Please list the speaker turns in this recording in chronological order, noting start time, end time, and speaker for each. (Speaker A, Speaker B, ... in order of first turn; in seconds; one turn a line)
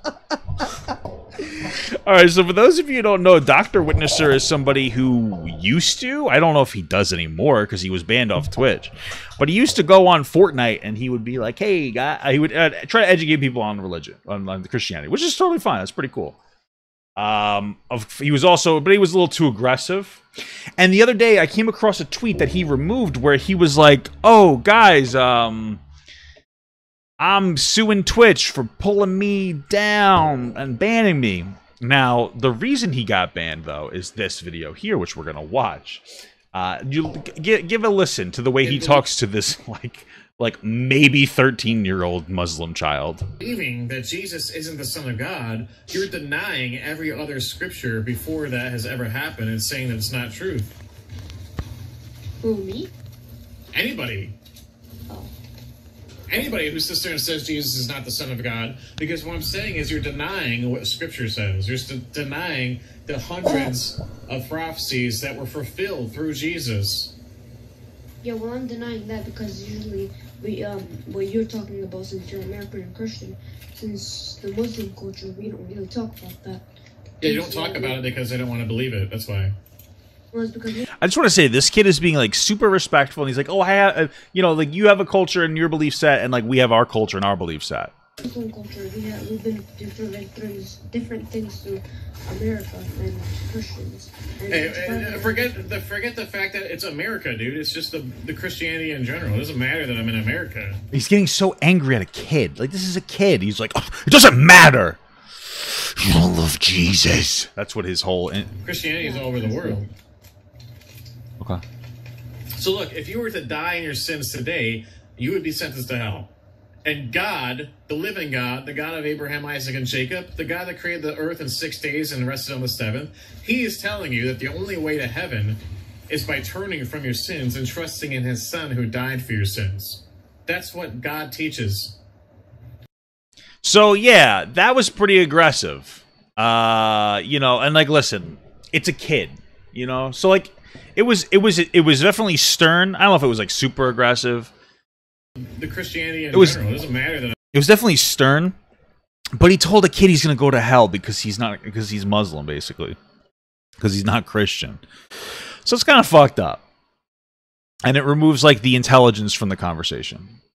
Speaker A: 1.4-16.4
Speaker A: 17.2-20.2
Speaker A: 20.8-25.8
Speaker A: 27.2-43.2
Speaker B: 38.6-39.0
Speaker B: 43.4-50.7
Speaker C: 52.4-52.9
Speaker B: 53.7-54.3
Speaker B: 56.3-67.1
Speaker C: 63.5-63.7
Speaker C: 68.2-76.6
Speaker C: 77.2-78.2
Speaker B: 77.2-79.5
Speaker C: 80.3-80.9
Speaker A: 81.0-87.9
Speaker C: 88.2-95.7
Speaker B: 94.5-100.8
Speaker A: 100.9-108.5
Speaker B: 108.6-109.8
Speaker C: 109.0-109.8
Speaker B: 112.5-116.3
Speaker B: 116.8-131.9
Speaker A: 133.6-144.5
Speaker B: 145.4-147.3
Speaker A: 146.3-146.6
Speaker A: 147.5-148.6
Speaker A: 149.3-153.0
Speaker A: 153.8-156.6
Speaker A: 157.8-160.3